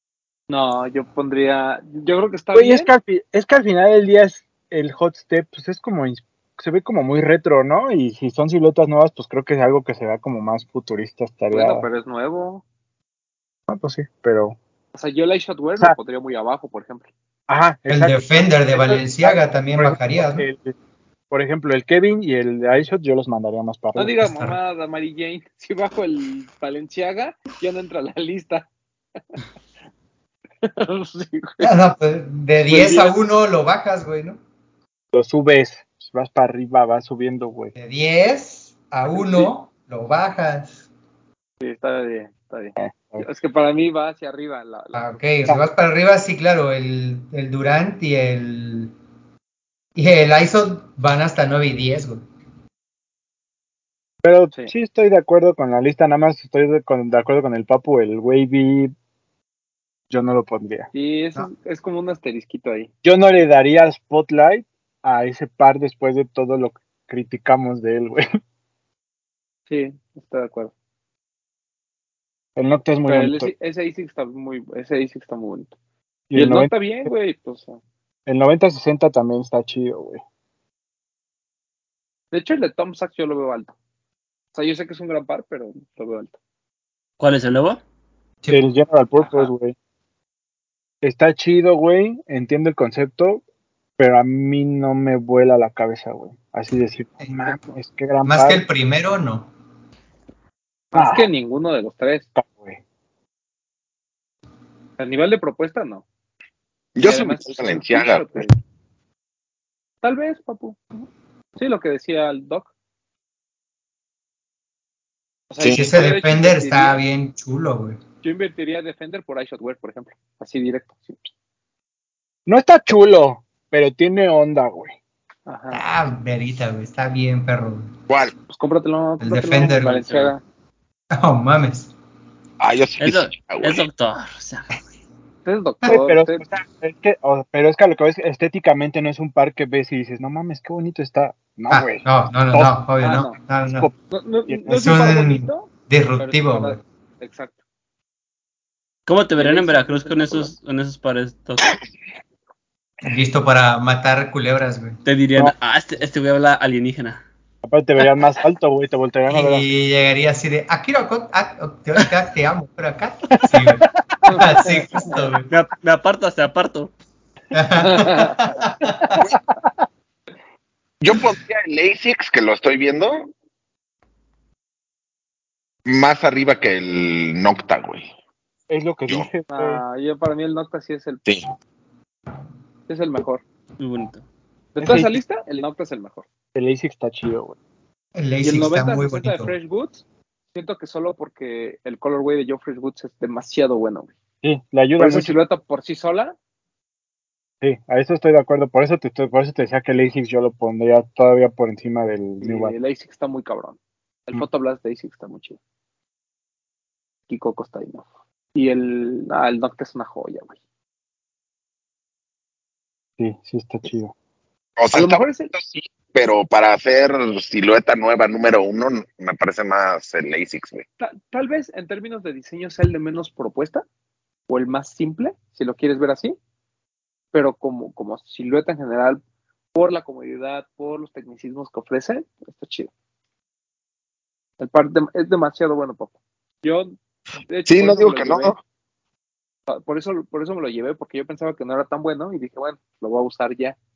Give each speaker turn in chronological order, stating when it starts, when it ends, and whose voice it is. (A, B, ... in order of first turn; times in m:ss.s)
0:00.5-0:02.9 A
0:02.6-0:11.9 B
0:11.5-0:12.6 A
0:13.7-0:14.6 B
0:14.9-0:17.1 A
0:17.5-0:20.8 B
0:17.9-0:20.5 C
0:21.3-0:24.3 B
0:24.0-0:28.7 A
0:24.2-0:24.6 C
0:30.6-0:31.7 A
0:31.6-0:34.4 C
0:32.7-0:33.2 A
0:35.1-0:37.7 B
0:37.8-0:40.9 C
0:39.1-0:39.5 A
0:41.6-0:45.5 A
0:42.8-0:43.2 B
0:45.0-0:48.9 C
0:50.0-0:52.2 C
0:54.2-0:58.9 B
1:00.1-1:00.9 B
1:00.9-1:02.9 A
1:03.0-1:08.4 B
1:09.7-1:10.7 A
1:12.6-1:13.5 B
1:13.1-1:15.7 A
1:16.3-1:17.1 B
1:16.4-1:17.8 A
1:18.3-1:20.2 B
1:22.3-1:23.8 A
1:24.5-1:26.3 A
1:27.2-1:27.8 D
1:28.5-1:29.8 B
1:29.2-1:29.5 A
1:31.0-1:33.4 B
1:34.0-1:38.6 B
1:37.2-1:37.6 C
1:38.2-1:39.5 C
1:40.9-1:42.3 A
1:40.9-1:41.3 B
1:42.4-1:42.8 B
1:45.0-1:46.0 A
1:47.0-1:48.5 E
1:47.0-1:48.6 A
1:50.0-1:51.0 A
1:51.6-1:52.7 A
1:55.5-1:57.0 A
1:55.6-1:55.8 E
1:55.7-1:58.0 C
1:58.2-2:01.3 A
2:02.5-2:05.0 B
2:05.5-2:05.8 A
2:05.7-2:07.9 C
2:08.5-2:10.4 A
2:09.2-2:10.3 C
2:11.1-2:11.9 C
2:12.6-2:13.8 E
2:13.0-2:14.8 D
2:15.4-2:16.4 A
2:15.9-2:22.7 B
2:21.7-2:23.9 C
2:23.0-2:23.4 A
2:24.1-2:27.6 A
2:24.7-2:26.8 C
2:29.1-2:31.8 D
2:29.4-2:30.5 A
2:33.1-2:35.0 C
2:35.0-2:37.2 D
2:37.6-2:39.7 B
2:39.3-2:45.5 C
2:43.4-2:43.7 B
2:44.2-2:45.3 A
2:45.5-2:46.9 D
2:47.5-2:49.2 C
2:47.8-2:48.5 A
2:51.0-2:53.3 E
2:55.9-2:58.1 E
2:58.7-2:59.8 B
2:59.5-3:01.2 A
3:01.2-3:01.5 E
3:02.9-3:03.4 A
3:03.8-3:04.2 D
3:04.8-3:06.3 A
3:04.8-3:05.2 B
3:06.6-3:07.6 B
3:08.1-3:09.5 C
3:08.4-3:14.1 A
3:14.4-3:15.4 B
3:15.0-3:16.4 A
3:17.6-3:22.7 B
3:22.4-3:25.6 A
3:27.3-3:30.6 A
3:33.2-3:34.1 B
3:34.8-3:40.8 E
3:34.9-3:35.5 A
3:41.0-3:43.8 A
3:44.5-3:46.4 A
3:47.3-3:49.2 A
3:49.7-3:52.9 A
3:54.6-3:57.0 A
3:57.5-3:58.6 A
3:57.7-3:58.6 E
3:59.7-4:03.8 A